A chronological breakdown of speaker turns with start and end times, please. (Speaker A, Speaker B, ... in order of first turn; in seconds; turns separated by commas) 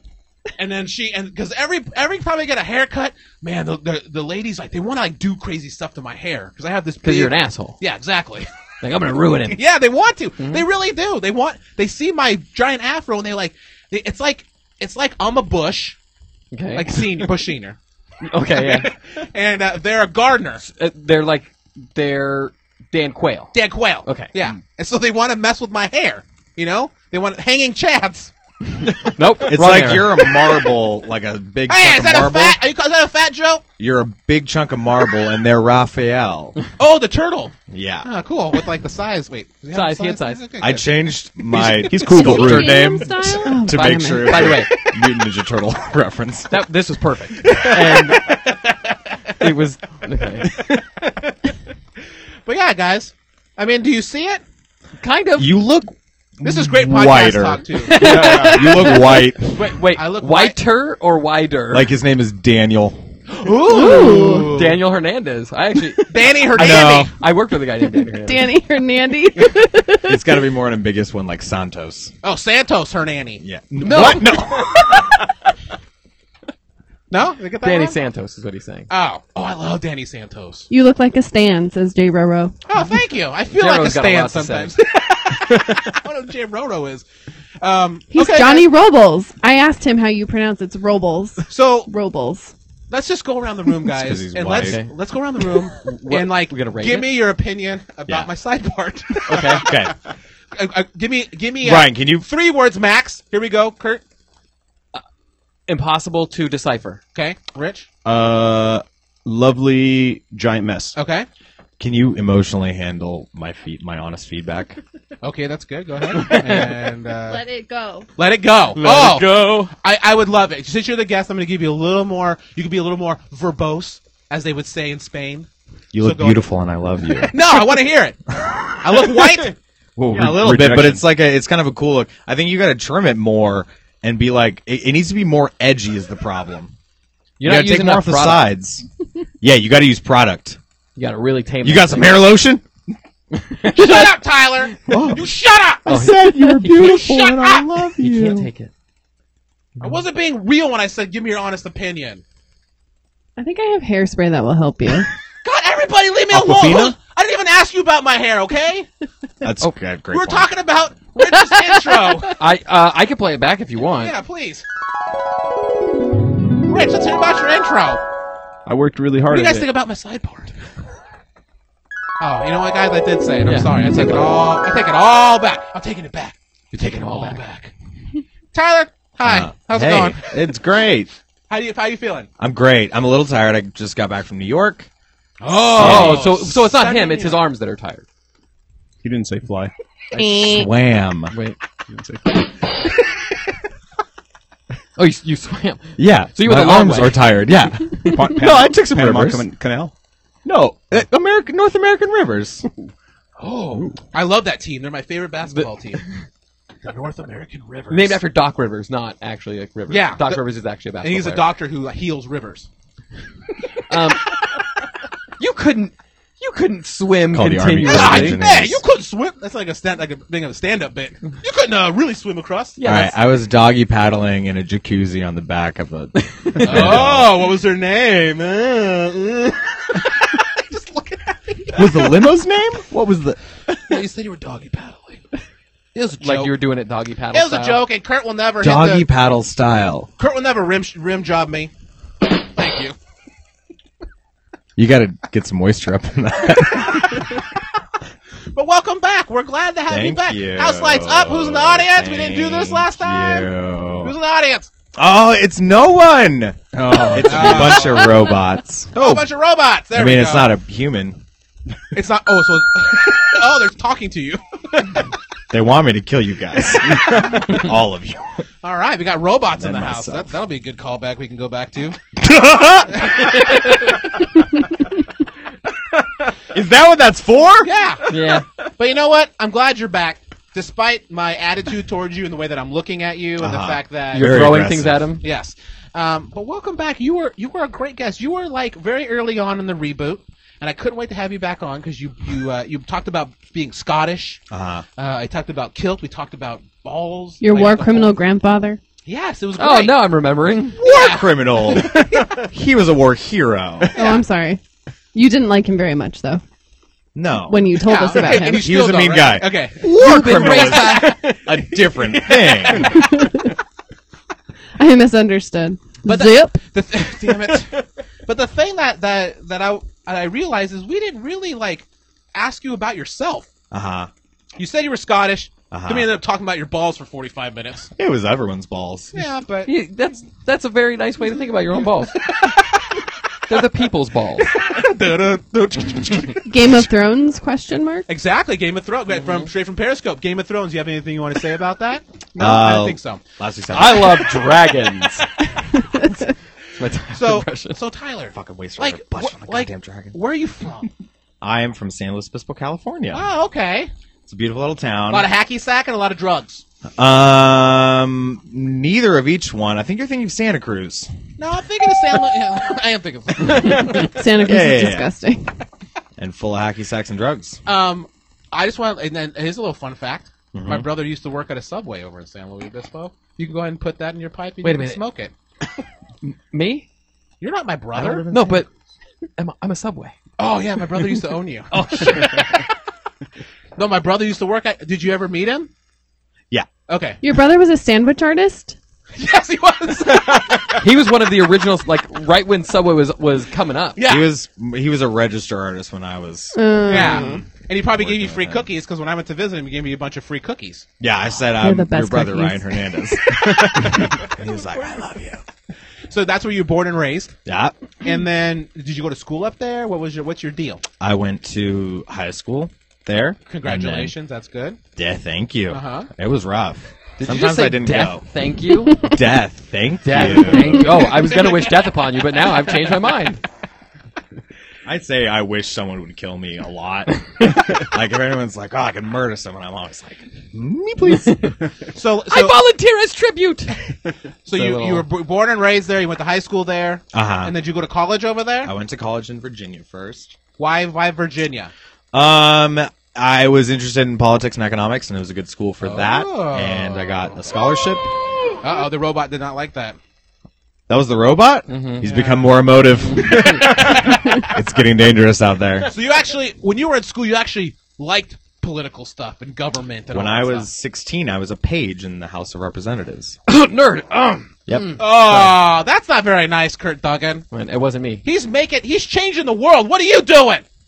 Speaker A: 0.6-8.5, Speaker B: 7.0-7.8, Speaker B: 8.8-9.6, Speaker A: 9.5-16.0, Speaker B: 10.4-10.6, Speaker B: 16.5-17.3, Speaker A: 16.7-17.8, Speaker B: 18.2-18.9, Speaker A: 18.5-20.6, Speaker B: 20.6-24.3, Speaker A: 23.5-28.3, Speaker B: 29.0-30.3, Speaker C: 29.4-32.6, Speaker A: 31.7-33.6, Speaker C: 33.8-36.6, Speaker A: 36.8-40.9, Speaker C: 37.7-38.1, Speaker B: 39.7-40.4, Speaker C: 40.6-46.6, Speaker D: 41.5-42.8, Speaker E: 42.1-44.5, Speaker B: 43.6-44.7, Speaker B: 46.5-48.3, Speaker A: 47.4-49.4, Speaker B: 49.4-50.7, Speaker A: 50.5-51.5, Speaker A: 52.5-54.4, Speaker B: 55.0-55.5, Speaker C: 55.4-59.5, Speaker A: 56.4-58.3, Speaker B: 57.9-58.9, Speaker E: 58.0-59.1, Speaker D: 58.2-58.6, Speaker B: 59.5-61.9, Speaker A: 59.9-60.6, Speaker C: 61.7-63.0, Speaker A: 63.3-64.7, Speaker E: 63.7-64.5, Speaker B: 63.7-68.6, Speaker A: 66.1-67.1, Speaker C: 66.5-67.1, Speaker E: 68.2-70.2, Speaker C: 70.0-72.1, Speaker A: 72.2-74.2, Speaker C: 73.4-75.3, Speaker B: 73.8-74.5, Speaker A: 77.1-78.0, Speaker B: 77.6-78.9, Speaker A: 78.9-80.7, Speaker E: 80.7-82.5, Speaker A: 82.7-87.0, Speaker B: 83.5-84.8, Speaker A: 87.6-88.7, Speaker E: 88.1-92.5, Speaker A: 91.5-91.9, Speaker A: 92.9-99.7, Speaker C: 93.8-94.8, Speaker B: 94.5-94.9, Speaker B: 95.8-97.2, Speaker B: 99.3-99.7, Speaker C: 99.5-100.0, Speaker A: 100.5-104.0, Speaker C: 101.6-102.3, Speaker B: 105.7-107.0, Speaker A: 107.1-107.9, Speaker D: 108.0-111.0, Speaker A: 110.9-111.2, Speaker C: 111.8-114.8, Speaker A: 115.2-117.4, Speaker B: 116.2-116.6, Speaker E: 117.3-118.1, Speaker A: 118.2-126.5, Speaker B: 118.8-119.7, Speaker C: 125.9-127.5, Speaker A: 127.3-128.2, Speaker A: 128.8-129.6, Speaker D: 130.0-131.1, Speaker C: 130.1-136.7, Speaker B: 137.4-138.5, Speaker C: 137.4-138.8, Speaker C: 139.4-140.6, Speaker B: 140.9-142.3, Speaker C: 141.6-142.6, Speaker B: 143.3-144.2, Speaker A: 143.7-145.9, Speaker C: 144.9-145.3, Speaker C: 145.8-148.5, Speaker B: 145.9-147.3, Speaker A: 147.1-147.6, Speaker B: 148.0-148.7, Speaker A: 149.8-152.2, Speaker E: 153.4-155.1, Speaker A: 155.4-158.9, Speaker C: 156.3-156.9, Speaker C: 159.4-160.5, Speaker A: 160.1-162.3, Speaker B: 162.3-164.1, Speaker A: 164.0-164.6, Speaker A: 166.7-168.0, Speaker D: 168.7-169.7, Speaker A: 169.3-170.5, Speaker A: 172.2-177.7, Speaker B: 173.4-174.3, Speaker B: 176.7-177.4, Speaker A: 178.5-180.3, Speaker C: 179.2-181.1, Speaker A: 181.5-182.3, Speaker C: 182.4-184.9, Speaker A: 185.4-187.4, Speaker B: 185.7-188.0, Speaker C: 185.7-186.3, Speaker D: 189.0-189.7, Speaker E: 190.1-190.7, Speaker C: 190.2-191.3, Speaker B: 191.3-191.6, Speaker D: 191.9-192.3, Speaker B: 194.9-197.3, Speaker C: 196.0-199.5, Speaker D: 198.1-199.9, Speaker C: 200.4-202.7, Speaker A: 203.4-206.0, Speaker B: 205.5-206.2, Speaker A: 206.8-208.2, Speaker B: 207.9-211.5, Speaker A: 209.9-210.4, Speaker A: 211.0-212.7, Speaker B: 213.9-214.4, Speaker B: 215.4-218.4, Speaker C: 217.3-218.8, Speaker A: 217.8-222.8, Speaker B: 222.8-223.2, Speaker C: 222.8-227.5, Speaker B: 226.2-226.9, Speaker A: 226.6-232.2, Speaker C: 231.7-233.8, Speaker A: 233.8-235.2, Speaker A: 235.9-236.5, Speaker B: 236.2-237.8, Speaker A: 237.3-239.1, Speaker C: 238.6-240.1, Speaker A: 240.2-241.7, Speaker A: 242.4-242.9, Speaker C: 244.8-247.4, Speaker A: 248.5-254.7, Speaker C: 249.9-254.1, Speaker C: 254.9-259.3, Speaker D: 256.8-257.1, Speaker A: 257.2-258.1, Speaker A: 258.9-260.5, Speaker C: 259.9-261.2, Speaker A: 261.9-265.0, Speaker C: 265.5-268.4, Speaker A: 268.6-272.0, Speaker C: 269.5-270.3, Speaker C: 272.2-273.6, Speaker C: 276.3-278.2, Speaker A: 277.6-278.1, Speaker B: 278.1-278.4, Speaker A: 278.8-284.5, Speaker C: 283.4-285.1, Speaker B: 284.1-285.2, Speaker A: 285.2-294.4, Speaker C: 294.5-294.9, Speaker A: 295.0-298.1, Speaker E: 297.4-298.8, Speaker A: 299.1-300.1, Speaker B: 299.6-300.8, Speaker A: 300.7-302.4, Speaker C: 300.8-303.9, Speaker A: 303.9-304.2, Speaker E: 303.9-304.6, Speaker E: 305.1-306.4, Speaker C: 307.1-313.0, Speaker E: 307.5-308.6, Speaker A: 307.8-311.4, Speaker B: 309.8-311.6, Speaker A: 311.9-313.0, Speaker E: 312.9-313.5, Speaker E: 314.8-316.6, Speaker A: 316.0-323.5, Speaker C: 323.7-324.1, Speaker A: 324.6-327.9, Speaker C: 325.7-326.1, Speaker C: 327.9-329.3, Speaker A: 329.1-329.7, Speaker B: 329.6-332.2, Speaker A: 332.2-332.9, Speaker B: 333.5-334.5, Speaker A: 334.4-336.5, Speaker E: 336.4-338.1, Speaker A: 338.1-343.2, Speaker B: 339.2-339.5, Speaker C: 342.4-344.5, Speaker B: 343.7-345.3, Speaker B: 346.7-347.8, Speaker A: 347.1-350.9, Speaker C: 348.3-350.2, Speaker C: 351.4-353.2, Speaker A: 353.1-353.9, Speaker C: 354.2-355.3, Speaker A: 355.1-356.6, Speaker C: 357.0-361.1, Speaker A: 361.4-364.1, Speaker E: 363.9-365.5, Speaker C: 364.4-365.1, Speaker C: 366.2-367.6, Speaker A: 367.6-375.3, Speaker C: 370.5-370.9, Speaker B: 374.6-375.0, Speaker B: 376.2-376.9, Speaker A: 377.4-378.3, Speaker C: 377.9-378.6, Speaker B: 378.3-378.7, Speaker B: 379.4-380.1, Speaker A: 380.4-382.6, Speaker B: 381.7-382.6, Speaker A: 383.8-385.7, Speaker A: 386.9-387.2, Speaker E: 387.2-388.8, Speaker A: 389.1-390.8, Speaker B: 390.8-394.0, Speaker A: 393.9-394.3, Speaker C: 394.0-398.7, Speaker E: 396.6-397.4, Speaker A: 396.9-400.9, Speaker C: 401.0-405.4, Speaker E: 401.6-402.8, Speaker A: 406.1-407.3, Speaker C: 407.4-407.8, Speaker A: 408.0-410.8, Speaker C: 411.0-414.1, Speaker A: 413.5-414.8, Speaker C: 414.9-418.2, Speaker A: 415.7-416.1, Speaker B: 417.2-419.1, Speaker C: 419.0-421.1, Speaker B: 420.0-423.4, Speaker C: 424.9-431.5, Speaker B: 431.1-431.6, Speaker A: 431.9-432.6, Speaker B: 432.3-433.7, Speaker A: 434.4-438.7, Speaker B: 434.5-435.1, Speaker C: 437.1-437.5, Speaker C: 438.6-440.4, Speaker A: 440.6-441.7, Speaker C: 442.1-448.1, Speaker A: 445.8-447.3, Speaker A: 448.6-450.0, Speaker C: 450.9-455.9, Speaker B: 451.7-452.1, Speaker A: 452.0-452.5, Speaker B: 453.1-453.7, Speaker A: 453.6-454.5, Speaker A: 455.9-460.7, Speaker C: 460.1-463.4, Speaker B: 463.5-464.5, Speaker C: 464.7-465.6, Speaker A: 464.9-467.4, Speaker B: 467.5-468.2, Speaker A: 468.2-470.6